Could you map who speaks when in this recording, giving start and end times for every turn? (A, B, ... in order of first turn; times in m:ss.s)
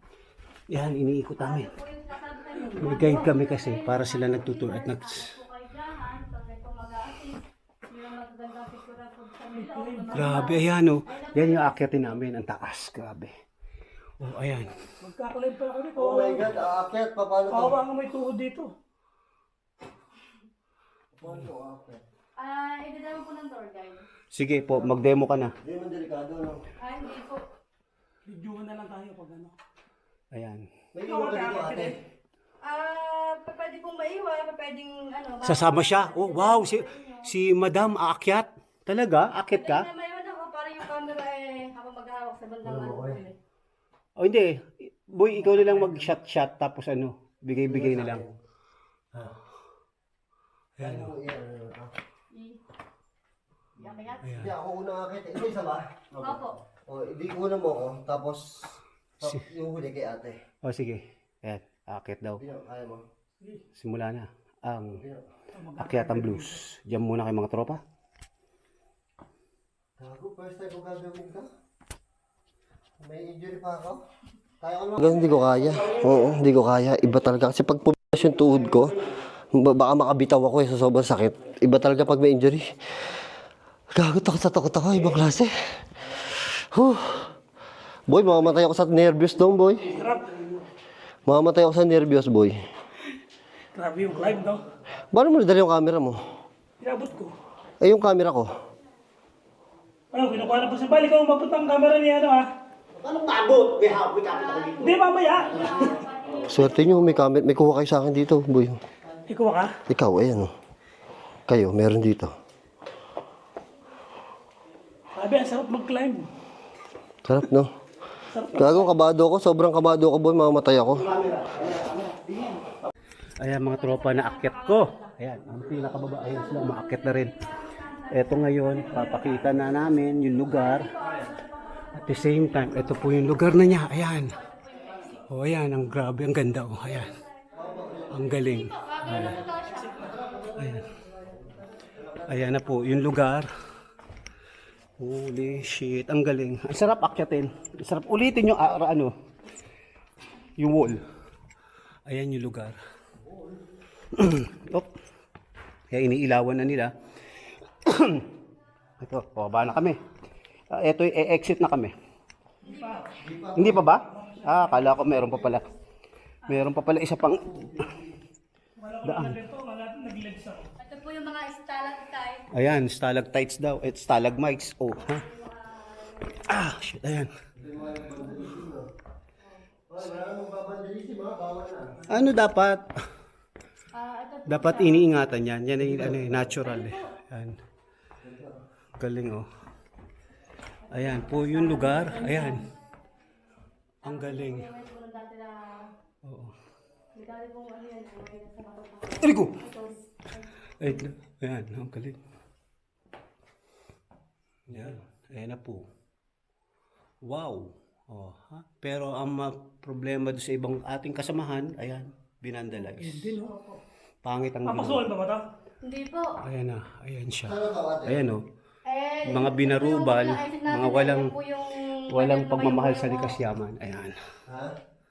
0:00.7-0:01.7 A
0:01.4-0:12.2 B
0:02.8-0:05.4 A
0:09.5-0:10.6 C
0:10.1-0:13.3 A
0:14.2-0:14.8 A
0:15.0-0:16.5 C
0:16.0-0:17.8 D
0:17.5-0:18.7 C
0:21.2-0:22.0 D
0:22.4-0:24.1 B
0:24.3-0:25.6 A
0:24.6-0:25.1 D
0:25.6-0:26.6 D
0:26.8-0:27.4 B
0:28.2-0:29.5 C
0:30.3-0:30.7 A
0:30.9-0:32.0 D
0:31.0-0:32.0 C
0:32.6-0:37.3 B
0:35.4-0:39.9 A
0:39.5-0:43.4 B
0:42.6-0:43.2 D
0:44.2-0:48.2 A
0:45.3-0:46.1 C
0:47.6-0:48.3 D
0:50.8-0:51.1 A
0:50.8-0:51.9 D
0:52.3-0:52.6 B
0:53.8-0:54.4 B
0:54.1-1:00.4 D
0:54.2-0:54.5 A
0:56.2-0:56.6 B
1:00.6-1:02.4 A
1:02.4-1:03.0 D
1:03.7-1:05.0 A
1:05.0-1:05.2 D
1:05.5-1:06.6 C
1:05.8-1:07.8 A
1:10.0-1:11.5 D
1:13.0-1:14.0 D
1:14.6-1:19.0 D
1:19.5-1:22.6 D
1:23.9-1:25.5 D
1:26.3-1:27.3 D
1:28.1-1:29.9 D
1:29.9-1:30.4 C
1:31.3-1:32.6 D
1:33.7-1:34.6 C
1:35.1-1:36.2 D
1:36.8-1:37.3 C
1:37.8-1:38.5 D
1:40.1-1:42.5 C
1:43.0-1:45.0 A
1:44.3-1:47.2 B
1:44.8-1:46.0 C
1:45.8-1:48.8 D
1:49.3-1:49.8 C
1:49.9-1:50.5 D
1:51.5-1:52.3 D
1:55.2-1:56.3 C
1:57.2-1:57.7 D
1:58.3-1:58.9 C
1:58.5-2:01.1 D
2:00.9-2:02.9 A
2:03.4-2:07.3 A
2:03.6-2:05.2 B
2:05.6-2:06.4 D
2:06.0-2:09.4 B
2:08.1-2:11.1 A
2:08.6-2:09.7 C
2:09.6-2:10.5 D
2:10.3-2:15.3 B
2:11.9-2:14.4 A
2:15.3-2:17.1 A
2:16.8-2:20.2 B
2:17.5-2:18.3 D
2:18.1-2:19.4 A
2:19.1-2:22.6 D
2:20.6-2:20.9 A
2:22.3-2:23.5 A
2:25.0-2:29.1 A
2:30.6-2:31.0 A
2:32.1-2:32.8 A
2:33.2-2:33.7 D
2:34.1-2:34.9 A
2:35.9-2:36.9 A
2:37.8-2:38.3 A
2:39.0-2:40.0 A
2:40.7-2:41.9 A
2:42.6-2:43.2 C
2:42.6-2:43.1 B
2:43.2-2:43.9 D
2:43.6-2:45.7 A
2:43.9-2:45.2 C
2:46.5-2:47.9 A
2:47.4-2:48.2 D
2:48.8-2:50.7 C
2:49.0-2:49.4 A
2:50.8-2:52.5 B
2:52.5-2:55.2 A
2:55.0-2:56.5 B
2:56.5-2:57.3 A
2:57.6-2:58.9 D
2:59.9-3:02.1 D
3:02.1-3:02.9 A
3:03.9-3:05.1 B
3:04.5-3:07.6 A
3:05.8-3:06.6 D
3:06.6-3:07.1 B
3:08.2-3:08.6 D
3:09.0-3:09.5 A
3:10.9-3:12.7 B
3:10.9-3:12.6 A
3:14.0-3:14.7 A
3:14.0-3:15.9 B
3:16.2-3:16.5 A
3:17.2-3:20.5 B
3:19.2-3:19.6 A
3:20.8-3:22.2 A
3:24.7-3:25.8 A
3:27.2-3:33.4 A
3:32.8-3:33.7 C
3:33.4-3:33.8 B
3:34.2-3:35.1 A
3:34.6-3:35.4 C
3:35.8-3:36.4 B
3:36.4-3:38.4 A
3:37.4-3:38.2 D
3:38.8-3:43.4 B
3:39.3-3:41.3 A
3:42.1-3:44.2 A
3:44.5-3:44.8 D